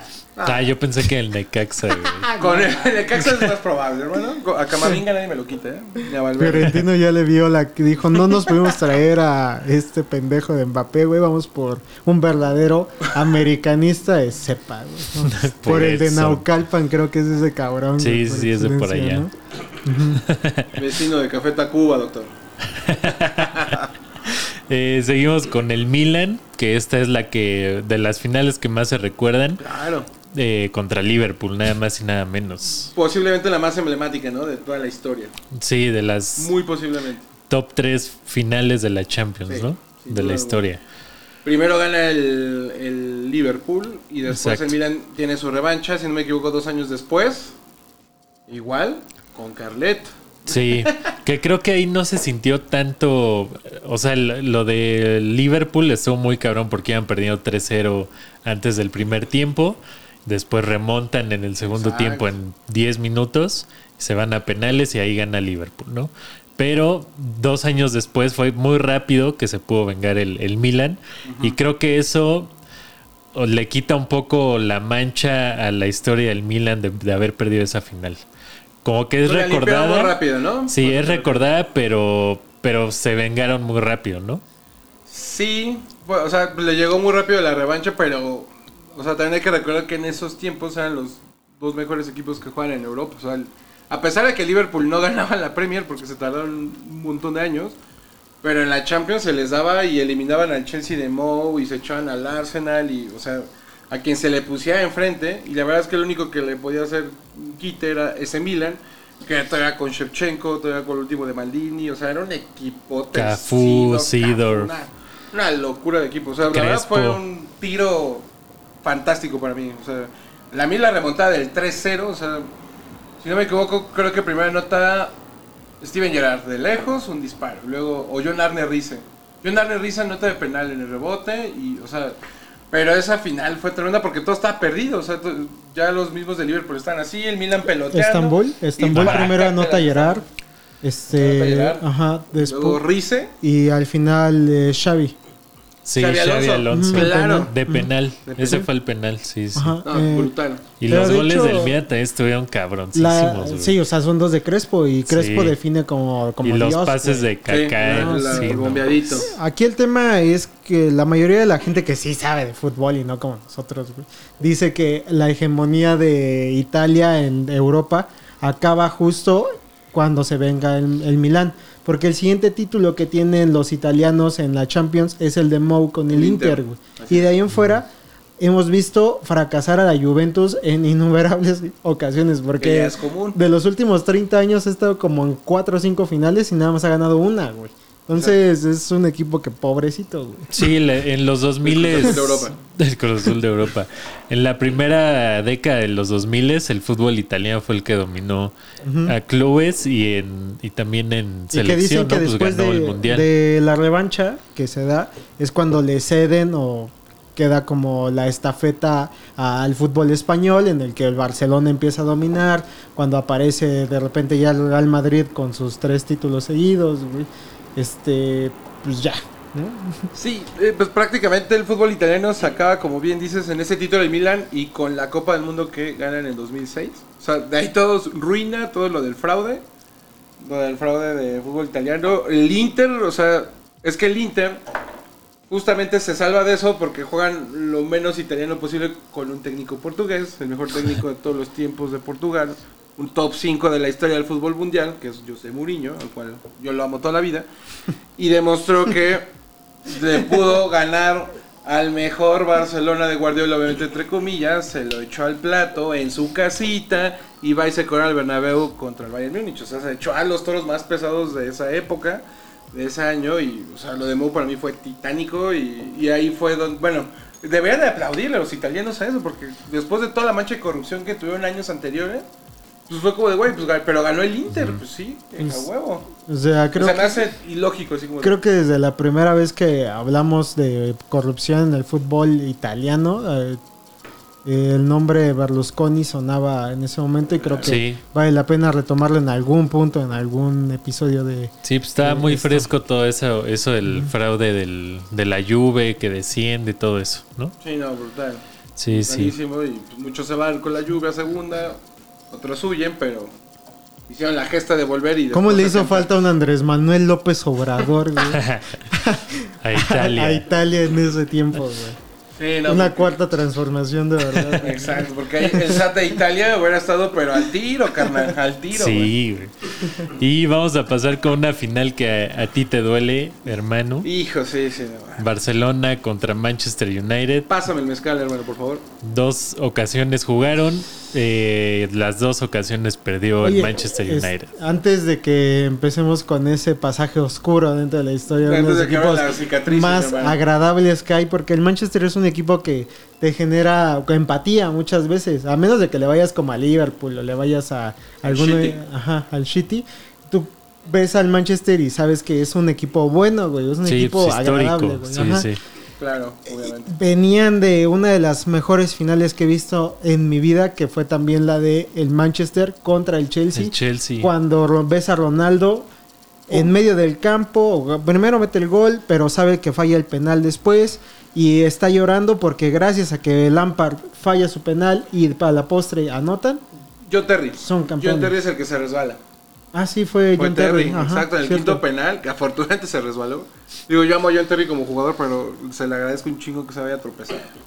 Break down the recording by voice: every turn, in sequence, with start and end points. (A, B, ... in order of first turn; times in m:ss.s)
0:00.4-0:00.6 A
0:00.4-0:02.3 B
0:02.1-0:02.8 C
0:02.4-0:06.8 A
0:06.4-0:19.3 C
0:15.2-0:16.5 B
0:18.0-0:19.3 B
0:19.8-0:20.2 C
0:20.2-0:20.7 B
0:20.8-0:22.4 A
0:22.8-0:29.6 B
0:23.2-0:23.9 A
0:29.6-0:30.1 A
0:30.3-0:32.9 B
0:32.9-0:35.3 A
0:35.6-0:36.5 B
0:36.4-0:37.3 A
0:37.5-0:40.8 B
0:39.5-0:40.6 A
0:41.4-0:47.6 A
0:44.3-0:44.8 B
0:48.5-0:51.1 A
0:50.5-1:12.5 B
1:01.6-1:02.3 A
1:11.2-1:11.6 A
1:13.3-1:18.2 B
1:18.8-1:24.4 B
1:19.2-1:21.4 A
1:25.1-1:37.8 A
1:38.4-1:58.3 A
1:53.1-1:54.7 B
1:56.5-1:57.2 B
1:58.8-2:02.5 A
2:03.2-2:05.1 A
2:05.8-2:12.2 A
2:12.7-2:20.2 A
2:17.9-2:20.2 C
2:19.0-2:19.3 B
2:20.8-2:22.8 C
2:21.1-2:21.8 A
2:22.4-2:23.3 A
2:23.4-2:25.2 C
2:25.8-2:29.8 B
2:26.0-2:27.5 A
2:26.7-2:27.9 C
2:28.3-2:28.6 A
2:29.6-2:30.3 C
2:29.8-2:30.6 A
2:30.8-2:33.8 B
2:30.9-2:31.8 C
2:33.0-2:37.3 C
2:35.1-2:35.6 B
2:36.4-2:38.9 B
2:37.5-2:39.3 A
2:37.8-3:10.5 C
2:56.1-2:57.3 A
3:02.6-3:03.4 A
3:10.5-3:18.5 B
3:11.6-3:12.6 A
3:18.8-3:19.1 C
3:19.1-3:23.3 B
3:21.5-3:40.1 C
3:40.1-3:49.6 A
3:50.4-3:54.6 A
3:55.5-4:07.5 A
4:08.2-4:09.3 A
4:09.9-4:32.2 A
4:32.9-4:36.1 A
4:34.5-4:34.8 B
4:35.4-4:35.6 C
4:36.2-4:37.2 C
4:36.8-4:38.4 A
4:38.2-4:43.6 C
4:44.4-4:52.7 C
4:47.4-4:47.8 A
4:47.6-4:48.0 B
4:51.6-4:57.5 B
4:57.6-5:01.8 A
4:58.8-4:59.3 B
5:02.3-5:03.3 A
5:04.1-5:06.1 A
5:05.3-5:12.0 C
5:08.3-5:08.8 B
5:09.6-5:10.5 B
5:12.4-5:13.2 A
5:12.6-5:15.8 C
5:14.3-5:14.6 B
5:14.6-5:19.1 A
5:18.7-5:24.1 B
5:24.0-5:25.3 A
5:25.2-5:27.5 B
5:27.5-5:28.8 A
5:29.0-5:34.5 B
5:33.4-5:55.5 C
5:38.4-5:40.4 A
5:48.2-5:48.8 A
5:53.8-5:55.6 B
5:56.0-5:56.9 A
5:56.6-6:05.9 C
6:03.5-6:04.3 B
6:06.5-6:16.6 C
6:17.1-6:19.2 A
6:17.6-6:18.4 C
6:19.7-6:21.8 C
6:20.4-6:27.5 A